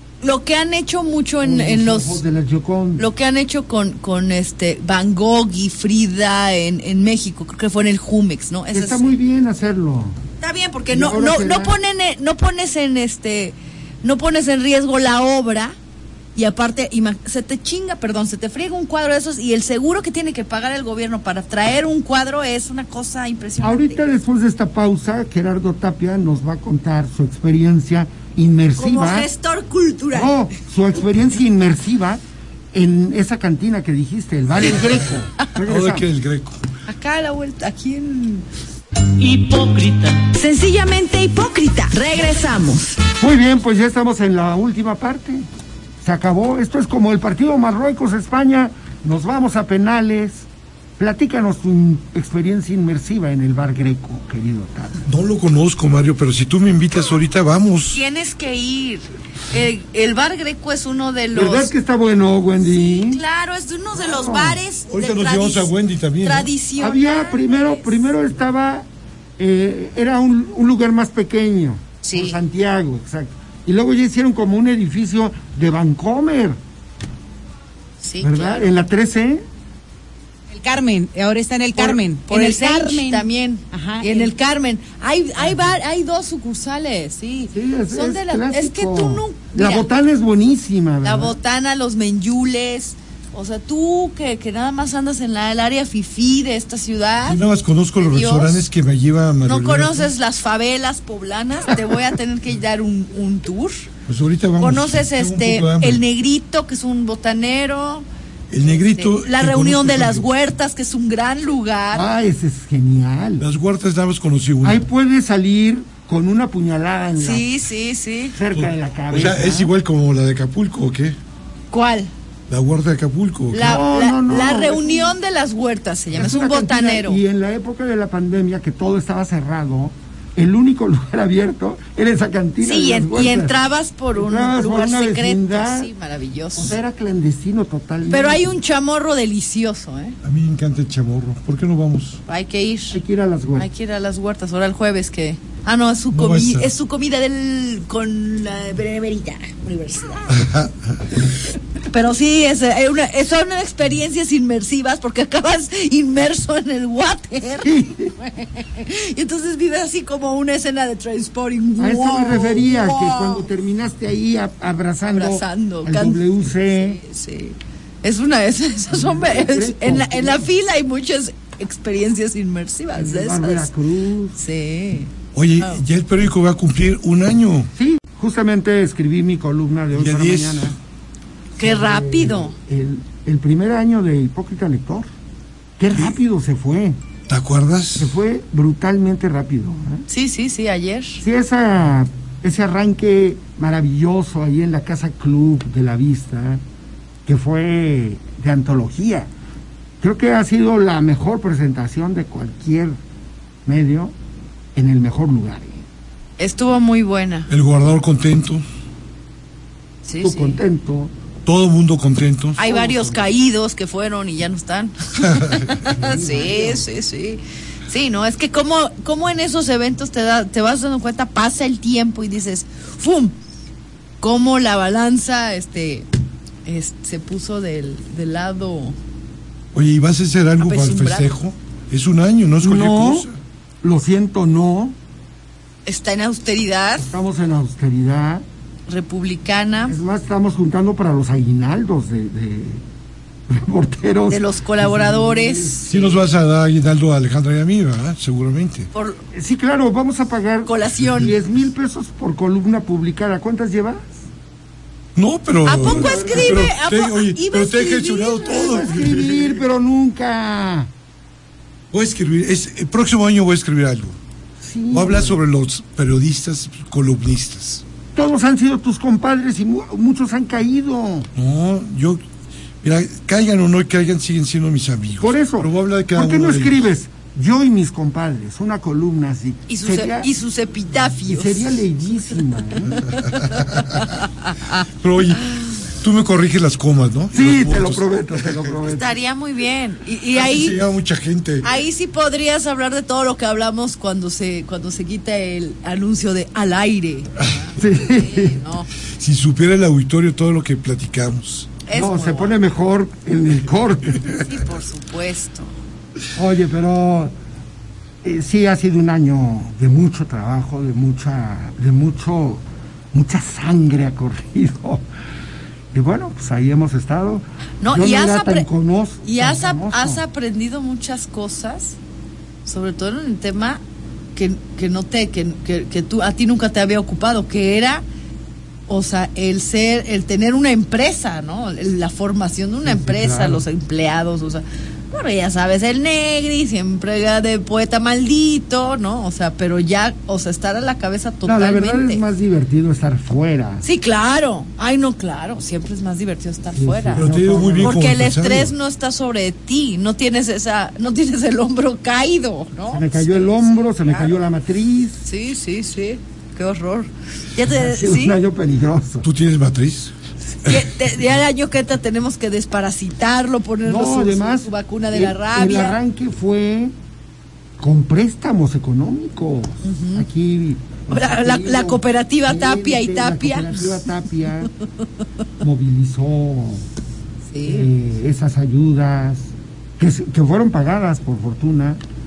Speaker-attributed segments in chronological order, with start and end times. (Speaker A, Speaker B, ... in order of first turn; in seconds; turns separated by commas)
Speaker A: 0.2-2.2, Speaker B: 1.4-3.0, Speaker A: 3.0-9.1, Speaker B: 8.7-10.2, Speaker A: 10.4-15.7, Speaker B: 10.9-11.8, Speaker A: 16.4-24.0, Speaker B: 23.6-29.3, Speaker A: 28.8-30.3, Speaker B: 30.1-32.2, Speaker B: 32.7-36.1, Speaker C: 35.6-36.6, Speaker A: 36.9-38.5, Speaker A: 39.2-43.0, Speaker B: 43.2-45.5, Speaker B: 46.0-55.0, Speaker C: 55.0-58.0, Speaker A: 57.9-61.7, Speaker B: 61.3-63.2, Speaker A: 62.6-65.7, Speaker B: 63.9-64.6, Speaker C: 64.9-66.5, Speaker A: 66.2-68.0, Speaker B: 66.8-76.6, Speaker A: 72.0-72.4, Speaker A: 78.0-78.7, Speaker B: 78.2-79.4, Speaker D: 80.5-84.3, Speaker A: 81.8-89.9, Speaker B: 87.5-91.3, Speaker A: 91.0-97.4, Speaker C: 97.2-100.1, Speaker A: 98.0-98.6, Speaker A: 99.4-103.9, Speaker C: 104.1-106.0, Speaker A: 104.6-108.1, Speaker C: 108.5-110.3, Speaker A: 108.6-112.0, Speaker B: 111.9-113.4, Speaker C: 113.4-114.8, Speaker B: 114.6-117.5, Speaker A: 117.2-118.4, Speaker B: 118.3-119.7, Speaker C: 118.5-121.2, Speaker A: 121.7-122.1, Speaker C: 122.5-123.8, Speaker A: 123.5-127.2, Speaker B: 123.5-125.1, Speaker B: 126.1-133.6, Speaker A: 132.6-136.8, Speaker B: 134.1-135.9, Speaker B: 136.5-138.5, Speaker A: 138.1-140.2, Speaker C: 140.2-142.2, Speaker A: 142.3-143.0, Speaker B: 142.9-143.7, Speaker A: 143.6-150.4, Speaker C: 146.1-146.7, Speaker C: 150.3-150.7, Speaker A: 151.9-163.5, Speaker B: 157.6-158.1, Speaker B: 161.8-167.0, Speaker A: 165.0-173.7, Speaker B: 168.9-170.5, Speaker B: 172.9-174.4, Speaker A: 174.4-175.8, Speaker C: 175.3-177.7, Speaker B: 177.8-180.8, Speaker C: 179.9-180.8, Speaker A: 181.6-182.5, Speaker B: 181.6-185.1, Speaker B: 185.8-187.0, Speaker C: 187.3-188.1, Speaker B: 188.0-190.0, Speaker A: 190.1-191.2, Speaker B: 191.2-196.6, Speaker B: 197.2-199.3, Speaker B: 200.0-203.0, Speaker B: 203.6-204.1, Speaker B: 204.8-205.8, Speaker A: 206.4-207.5, Speaker C: 207.5-208.6, Speaker A: 210.0-210.6, Speaker B: 210.2-211.1, Speaker C: 211.4-212.9, Speaker A: 212.6-223.3, Speaker B: 212.7-213.0, Speaker C: 215.3-215.8, Speaker B: 215.9-216.9, Speaker A: 224.2-226.1, Speaker A: 226.7-229.0, Speaker C: 229.7-233.4, Speaker A: 230.6-231.3, Speaker B: 232.6-233.3, Speaker B: 233.8-235.0, Speaker A: 235.8-237.1, Speaker B: 237.0-238.4, Speaker A: 238.9-239.9, Speaker B: 239.9-242.8, Speaker B: 243.5-246.1, Speaker A: 244.3-246.1, Speaker C: 245.9-248.9, Speaker A: 248.9-249.2, Speaker B: 249.3-254.2, Speaker A: 250.6-251.3, Speaker C: 255.2-259.6, Speaker A: 255.6-258.9, Speaker B: 255.8-256.7, Speaker B: 258.4-260.9, Speaker C: 261.9-264.2, Speaker B: 264.6-265.4, Speaker C: 264.9-267.8, Speaker B: 268.1-271.3, Speaker C: 271.4-272.2, Speaker C: 272.8-276.8, Speaker B: 275.2-280.3, Speaker A: 279.7-281.8, Speaker B: 281.3-283.0, Speaker A: 282.9-284.9, Speaker C: 283.3-284.0, Speaker C: 284.9-288.6, Speaker B: 287.3-289.2, Speaker A: 288.9-290.8, Speaker C: 290.3-291.7, Speaker A: 291.6-298.9, Speaker B: 297.8-298.6, Speaker C: 299.2-301.7, Speaker A: 301.9-302.6, Speaker B: 301.9-304.4, Speaker A: 304.4-305.7, Speaker B: 306.4-307.3, Speaker B: 308.2-315.1, Speaker B: 315.9-320.2, Speaker A: 317.8-318.6, Speaker A: 319.2-322.0, Speaker A: 322.6-323.8, Speaker A: 324.4-328.0, Speaker A: 328.9-342.2, Speaker B: 332.9-333.6, Speaker B: 341.4-343.9, Speaker A: 343.8-347.2, Speaker B: 346.7-348.1, Speaker C: 347.1-348.7, Speaker A: 347.8-354.4, Speaker B: 352.9-355.2, Speaker A: 355.2-358.4, Speaker B: 357.7-359.3, Speaker C: 359.2-360.1, Speaker A: 360.6-366.0, Speaker B: 363.9-366.9, Speaker B: 367.8-374.7, Speaker A: 369.8-370.3, Speaker A: 371.1-373.9, Speaker B: 375.6-376.9, Speaker A: 377.5-377.9, Speaker B: 377.6-382.0